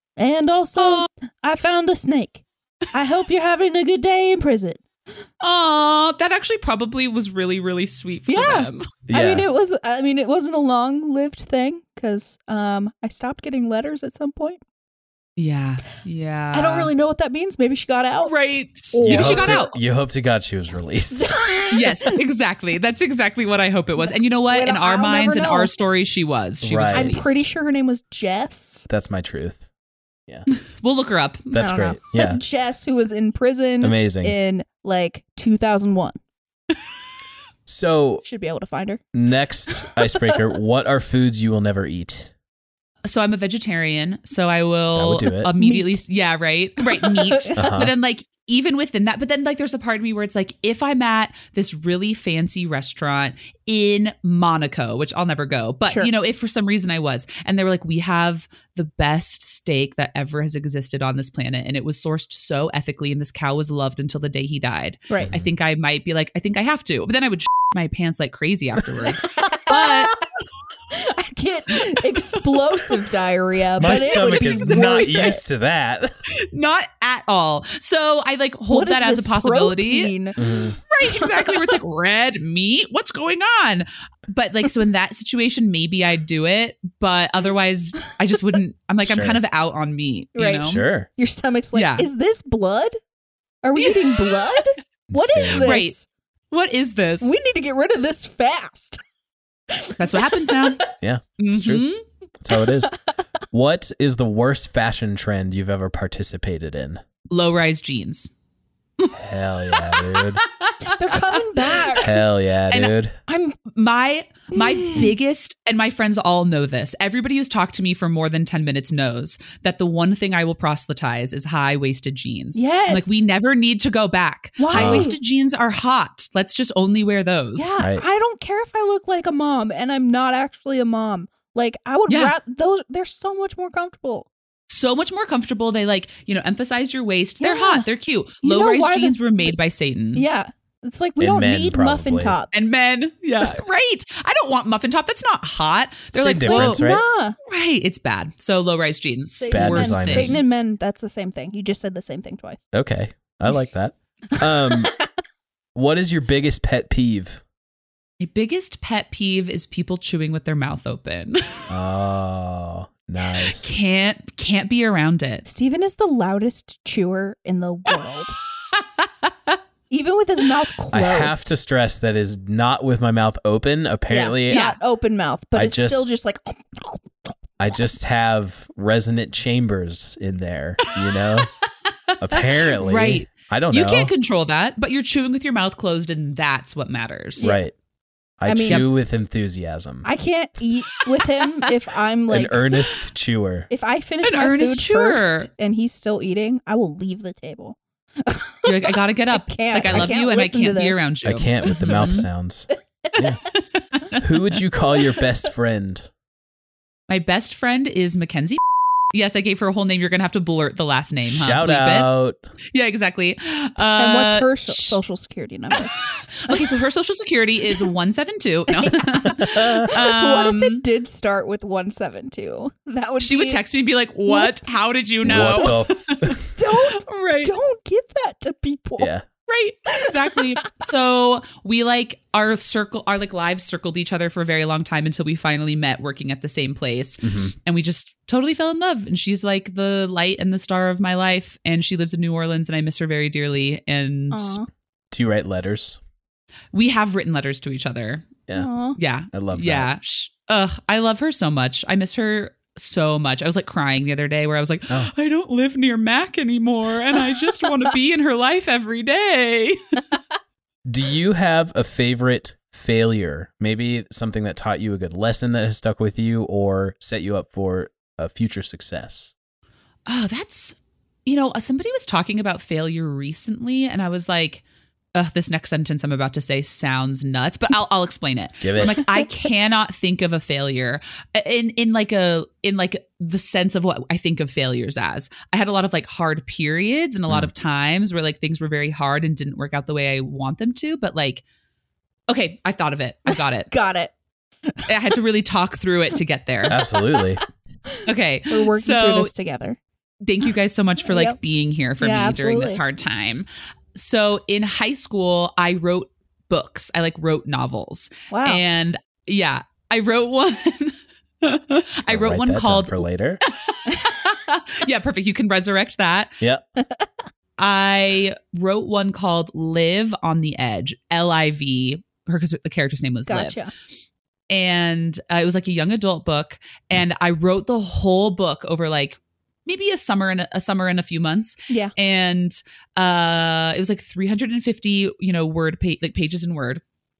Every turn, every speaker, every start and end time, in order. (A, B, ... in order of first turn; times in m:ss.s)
0:00.2-0:04.8 A
0:00.8-0:01.1 B
0:05.4-0:08.9 B
0:08.3-0:14.6 A
0:09.1-0:09.4 C
0:15.4-0:16.9 B
0:16.5-0:18.3 A
0:18.2-0:19.8 B
0:18.9-0:19.6 A
0:19.0-0:21.3 C
0:21.1-0:22.2 A
0:21.7-0:27.4 B
0:24.0-0:25.7 A
0:26.6-0:27.1 C
0:26.9-0:28.9 A
0:28.9-0:29.6 C
0:30.8-0:31.7 B
0:31.5-0:32.4 C
0:31.6-0:36.2 A
0:33.8-0:34.4 C
0:37.7-0:38.2 C
0:38.2-0:39.0 A
0:39.1-0:42.3 C
0:43.0-1:10.1 B
0:44.9-0:45.5 C
0:45.6-0:46.0 A
0:46.8-0:47.6 A
0:47.5-0:47.9 C
1:05.2-1:05.5 C
1:09.4-1:10.0 A
1:10.9-1:15.4 A
1:13.8-1:16.2 C
1:13.8-1:15.3 B
1:16.3-1:20.1 B
1:18.7-1:20.4 A
1:20.4-1:20.8 C
1:20.9-1:30.8 B
1:21.0-1:21.7 A
1:29.0-1:29.4 C
1:30.3-1:33.0 A
1:30.6-1:31.1 C
1:31.7-1:32.1 B
1:33.6-1:36.0 A
1:33.8-1:34.5 B
1:35.1-1:35.7 C
1:35.5-1:35.9 B
1:36.5-1:37.3 B
1:37.2-1:39.0 A
1:39.7-1:40.7 A
1:40.0-1:40.8 B
1:41.0-1:41.8 C
1:41.4-1:42.0 B
1:42.4-1:42.9 C
1:43.5-1:47.0 C
1:47.3-1:48.3 B
1:49.1-1:50.4 C
1:49.7-1:52.1 B
1:50.9-1:52.1 A
1:52.0-1:53.2 C
1:53.3-1:53.6 A
1:53.7-2:07.7 B
1:54.6-1:55.1 A
2:02.5-2:03.2 A
2:04.6-2:05.2 A
2:04.7-2:05.1 C
2:07.6-2:14.3 A
2:07.8-2:08.0 C
2:12.1-2:12.3 B
2:14.7-2:20.2 B
2:17.4-2:17.8 A
2:18.4-2:19.6 A
2:20.1-2:22.5 A
2:21.2-2:22.4 C
2:22.5-2:26.8 B
2:26.1-2:27.0 C
2:26.4-2:27.4 A
2:27.5-2:30.4 B
2:29.4-2:32.6 A
2:29.5-2:30.4 C
2:32.7-2:34.9 C
2:35.7-2:37.4 C
2:38.2-2:41.6 B
2:41.7-2:43.7 C
2:43.4-2:45.4 B
2:45.4-2:48.4 A
2:48.7-2:49.6 B
2:49.9-2:51.5 A
2:50.9-2:54.6 C
2:54.1-2:57.1 A
2:54.5-2:54.8 B
2:55.5-2:56.1 C
2:57.6-3:01.5 C
3:02.2-3:04.1 C
3:02.3-3:07.5 B
3:07.4-3:07.7 C
3:08.4-3:10.1 C
3:08.5-3:08.8 A
3:10.0-3:12.6 A
3:12.3-3:13.7 C
3:13.7-3:21.1 A
3:14.2-3:15.5 B
3:18.6-3:22.3 B
3:21.2-3:23.4 C
3:23.5-3:24.2 B
3:24.2-3:26.1 C
3:27.1-3:28.6 B
3:29.1-3:32.1 B
3:31.3-3:32.4 C
3:32.7-3:35.0 B
3:34.0-3:36.0 A
3:36.0-3:40.8 B
3:38.7-3:43.6 A
3:39.4-3:39.8 C
3:43.2-3:47.5 B
3:44.3-3:44.6 A
3:45.2-3:49.1 A
3:45.2-3:46.4 C
3:49.0-3:49.2 C
3:49.5-4:04.6 B
3:57.2-3:57.5 C
4:04.3-4:04.7 A
4:05.1-4:06.0 C
4:06.7-4:08.3 B
4:08.6-4:09.0 A
4:09.0-4:19.8 B
4:09.3-4:09.9 C
4:20.8-4:29.3 C
4:30.1-4:34.6 B
4:35.1-4:51.4 B
4:38.6-4:39.0 C
4:52.3-4:53.7 B
4:53.3-4:54.1 A
4:54.9-4:56.8 B
4:56.7-4:57.4 C
4:56.7-4:57.4 A
4:58.0-4:59.3 B
4:58.5-4:59.8 A
5:00.2-5:16.4 B
5:01.0-5:01.4 A
5:02.0-5:02.8 A
5:08.3-5:08.6 A
5:12.1-5:13.4 C
5:17.6-5:23.6 B
5:23.3-5:23.7 A
5:24.5-5:36.8 B
5:31.7-5:31.9 A